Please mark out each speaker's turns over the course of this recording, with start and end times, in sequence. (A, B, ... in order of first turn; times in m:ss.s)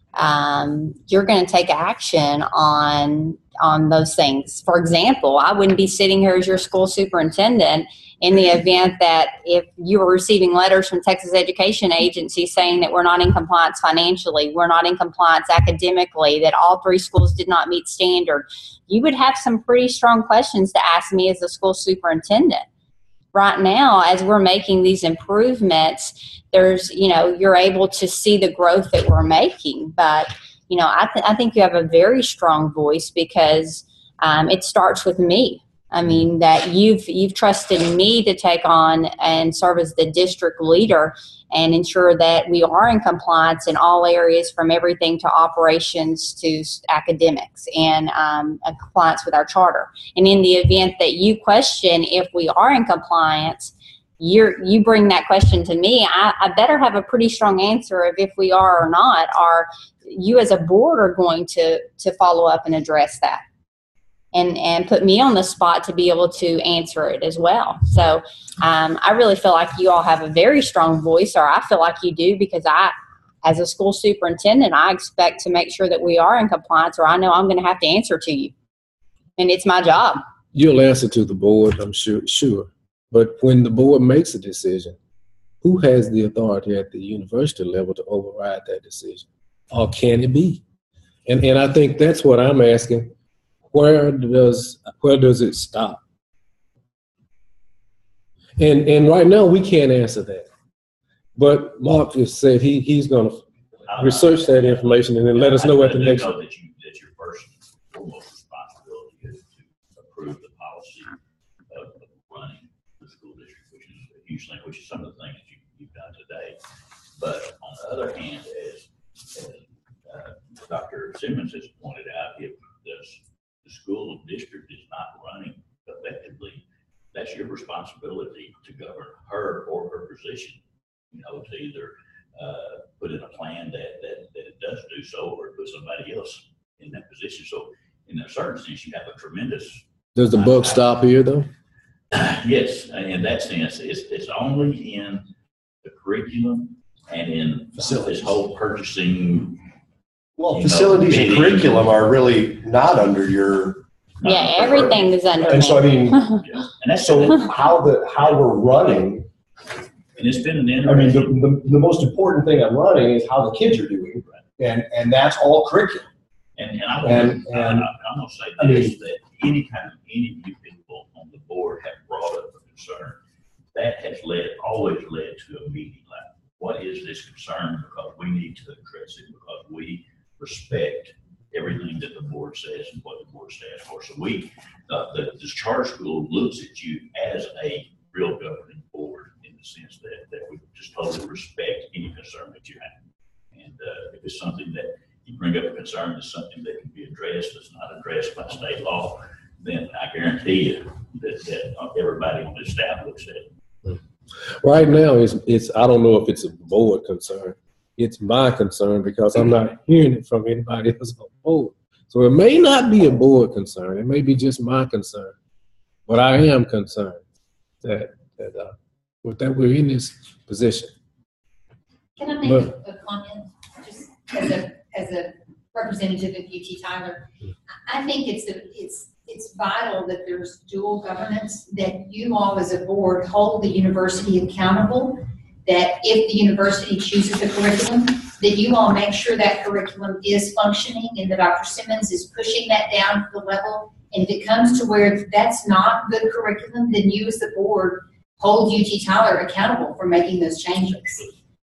0:00.2-0:22.6 A
0:23.3-1:03.4 A
1:04.3-1:18.5 A
1:19.4-1:20.2 A
1:20.5-1:25.0 B
1:25.6-1:30.6 B
1:31.3-1:33.1 B
1:33.7-1:36.0 B
1:38.6-1:40.4 B
1:41.4-1:43.4 B
1:43.8-1:51.1 C
1:44.0-1:46.3 B
1:51.7-1:56.6 C
1:57.2-2:10.6 C
2:11.1-2:20.8 C
2:20.1-2:21.5 B
2:22.1-2:25.2 C
2:25.8-2:29.6 C
2:27.8-2:28.2 D
2:30.4-2:33.8 D
2:30.5-2:31.8 C
2:34.2-2:38.8 C
2:34.2-2:36.4 A
2:34.4-2:36.4 D
2:36.9-2:39.3 D
2:40.2-2:41.5 C
2:40.8-2:46.1 D
2:46.6-2:53.2 C
2:47.0-2:47.9 D
2:48.6-2:48.9 D
2:53.7-3:12.9 C
3:13.5-3:23.5 C
3:24.6-3:35.3 B
3:36.1-3:37.2 B
3:37.8-3:40.9 B
3:42.2-3:47.3 E
3:47.9-4:11.2 E